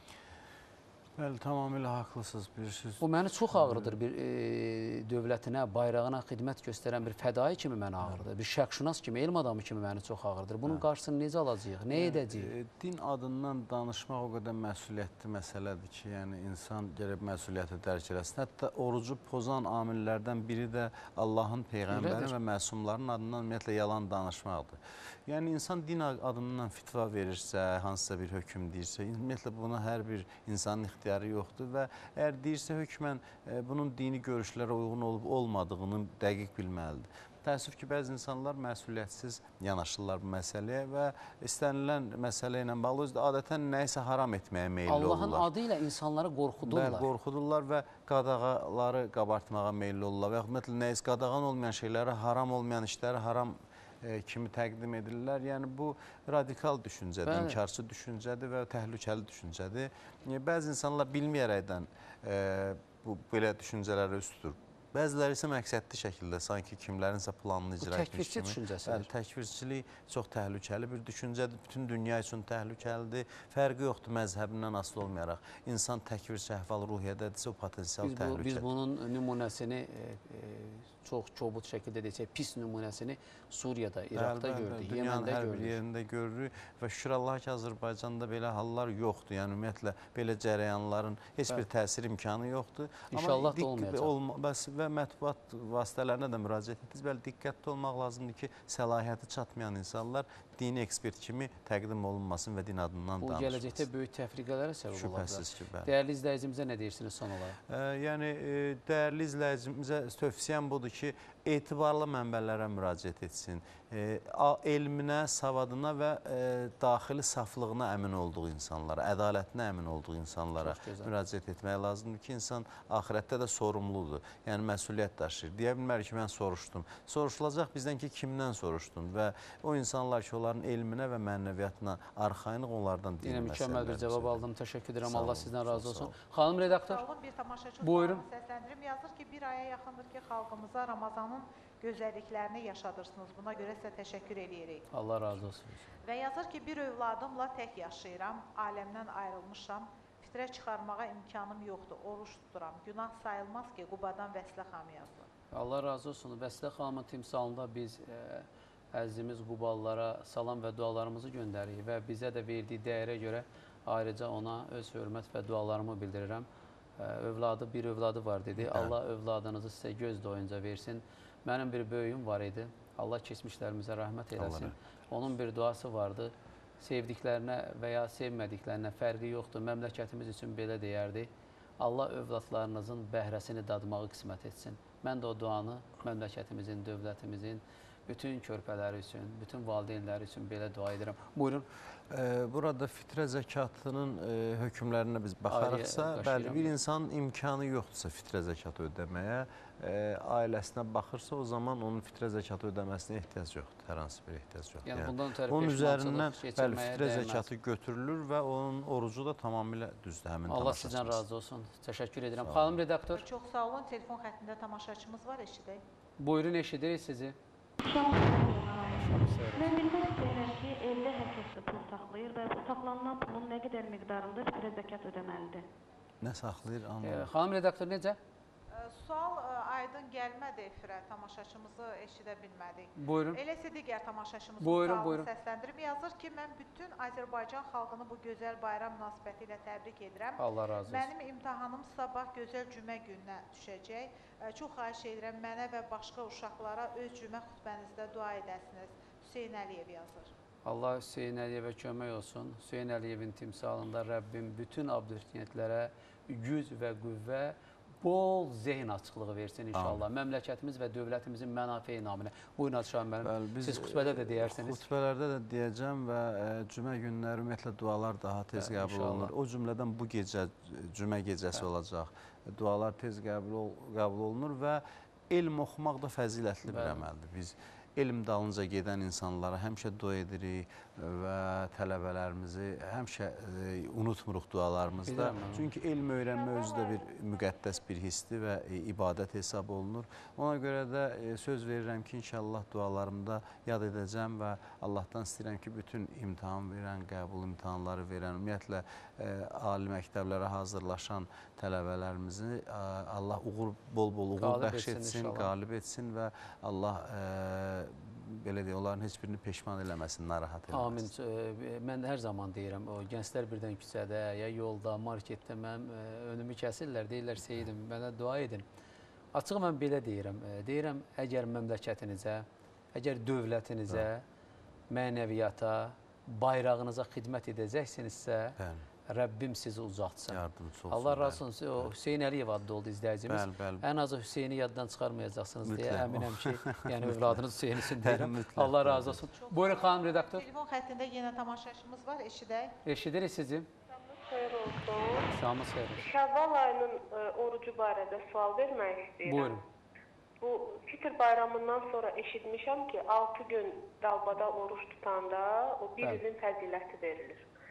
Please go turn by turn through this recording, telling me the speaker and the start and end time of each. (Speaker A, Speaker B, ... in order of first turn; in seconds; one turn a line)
Speaker A: 1.2-4.0
Speaker B: 3.0-12.5
Speaker A: 11.9-45.5
Speaker B: 21.9-22.3
Speaker B: 44.9-47.1
Speaker A: 46.6-78.7
Speaker B: 57.3-57.6
Speaker B: 67.8-69.1
Speaker B: 78.0-85.8
Speaker A: 84.2-103.9
Speaker B: 93.1-94.1
Speaker B: 103.2-107.6
Speaker A: 104.9-105.9
Speaker A: 107.7-134.4
Speaker B: 120.6-121.1
Speaker B: 133.2-137.0
Speaker A: 135.0-136.2
Speaker C: 136.6-144.9
Speaker B: 137.8-138.2
Speaker B: 144.9-145.7
Speaker C: 146.0-155.3
Speaker B: 155.5-166.5
Speaker B: 167.0-191.7
Speaker A: 168.6-168.9
Speaker A: 174.4-174.8
Speaker A: 192.1-211.2
Speaker B: 195.5-196.7
Speaker B: 204.8-207.5
Speaker B: 210.5-213.2
Speaker A: 212.4-212.8
Speaker C: 213.1-215.8
Speaker B: 216.2-217.4
Speaker D: 217.8-225.6
Speaker B: 219.0-219.7
Speaker A: 226.2-227.3
Speaker B: 227.0-228.2
Speaker C: 228.7-250.3
Speaker B: 233.0-233.4
Speaker B: 234.6-235.3
Speaker B: 240.4-241.1
Speaker B: 250.7-264.8
Speaker A: 259.7-260.0
Speaker A: 263.2-311.1
Speaker B: 268.6-269.3
Speaker B: 276.7-277.0
Speaker B: 285.1-285.7
Speaker C: 286.5-287.1
Speaker B: 304.4-305.5
Speaker B: 310.7-318.6
Speaker B: 319.3-324.2
Speaker B: 324.9-328.6
Speaker A: 328.6-328.9
Speaker B: 329.1-340.4
Speaker A: 330.3-331.9
Speaker A: 333.3-333.9
Speaker A: 335.6-339.2
Speaker C: 339.3-342.8
Speaker B: 342.9-343.7
Speaker E: 343.9-345.3
Speaker B: 345.3-346.1
Speaker E: 345.9-349.6
Speaker B: 349.2-349.6
Speaker E: 350.4-357.5